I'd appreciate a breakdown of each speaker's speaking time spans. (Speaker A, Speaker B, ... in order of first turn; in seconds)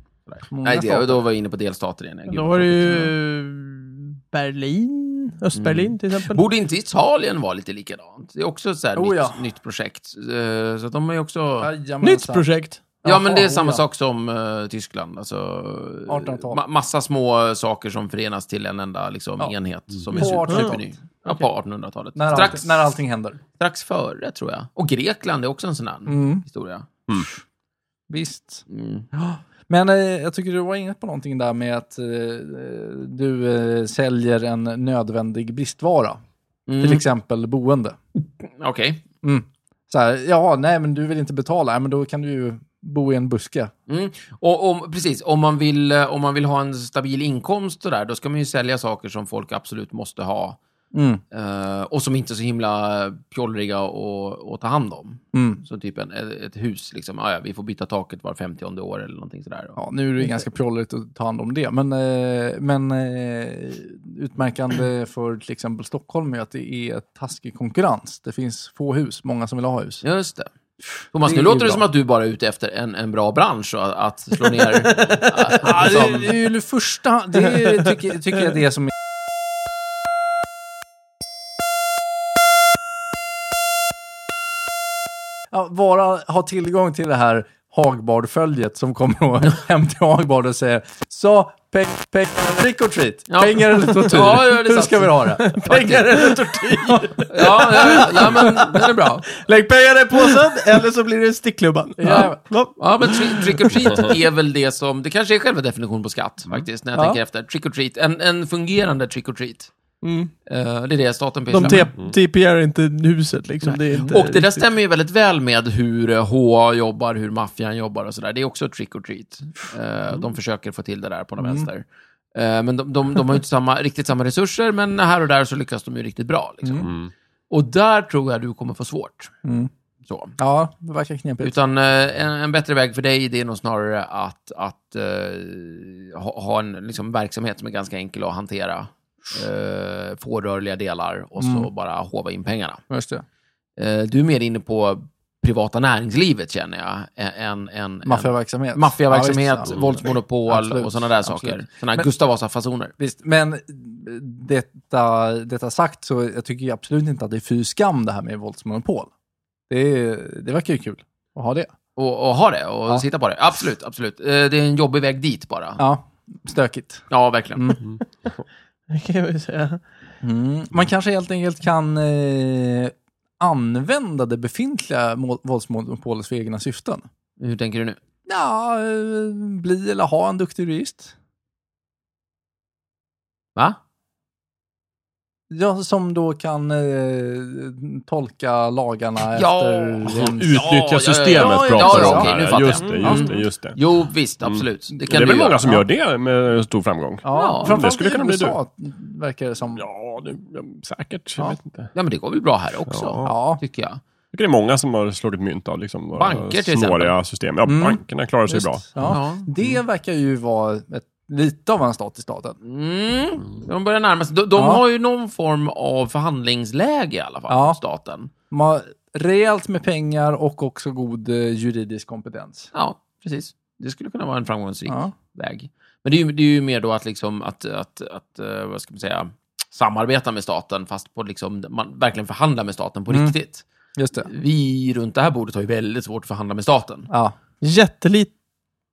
Speaker A: 0.3-3.1, 5.5-11.7, 13.1-22.9, 23.6-26.9, 28.7-29.1, 36.7-37.0, 38.4-39.0, 43.9-50.6, 51.3-59.8, 70.0-70.5, 71.1-76.4, 93.3-96.4, 97.3-99.3, 102.1-109.7, 110.5-111.9, 113.7-126.9, 127.5-129.3, 130.1-130.3, 131.4-142.8, 143.8-152.9, 162.0-165.8, 167.1-167.8, 177.4-178.0, 189.3-195.8, 197.3-197.8, 201.9-204.0, 206.2-207.2, 209.0-209.5, 212.6-218.3, 222.7-237.1
Speaker B: 0.5-1.2, 9.0-9.4, 11.6-12.4, 13.0-13.8, 16.1-16.6, 20.1-20.9, 22.1-23.4, 26.1-26.4, 28.1-36.2, 36.8-38.0, 39.2-43.7, 50.9-51.2, 55.3-55.6, 59.8-70.0, 71.2-71.8, 75.6-78.9, 85.5-98.3, 102.0-102.4, 121.4-121.7, 126.6-126.9, 129.4-129.7, 130.4-131.6, 141.4-141.7, 142.9-143.2, 148.1-152.1, 153.0-159.1, 159.7-161.7, 165.8-167.8, 170.2-177.0, 178.3-181.1, 185.5-190.6, 191.3-193.3, 197.2-199.8, 203.2-203.6, 207.7-212.6, 214.6-214.8, 217.5-217.8, 218.5-222.7, 224.9-225.1, 233.1-233.3, 234.0-234.3, 237.1-237.3
Speaker C: 2.3-6.4, 12.0-12.8, 20.5-20.8, 74.8-75.3, 77.5-77.9, 95.5-98.7, 99.4-103.5, 110.0-110.3, 111.5-114.7, 168.9-169.8, 237.6-238.3
Speaker D: 126.8-127.1, 149.7-150.0, 190.1-193.8, 194.4-198.6, 199.8-201.9, 202.9-203.3, 204.3-209.2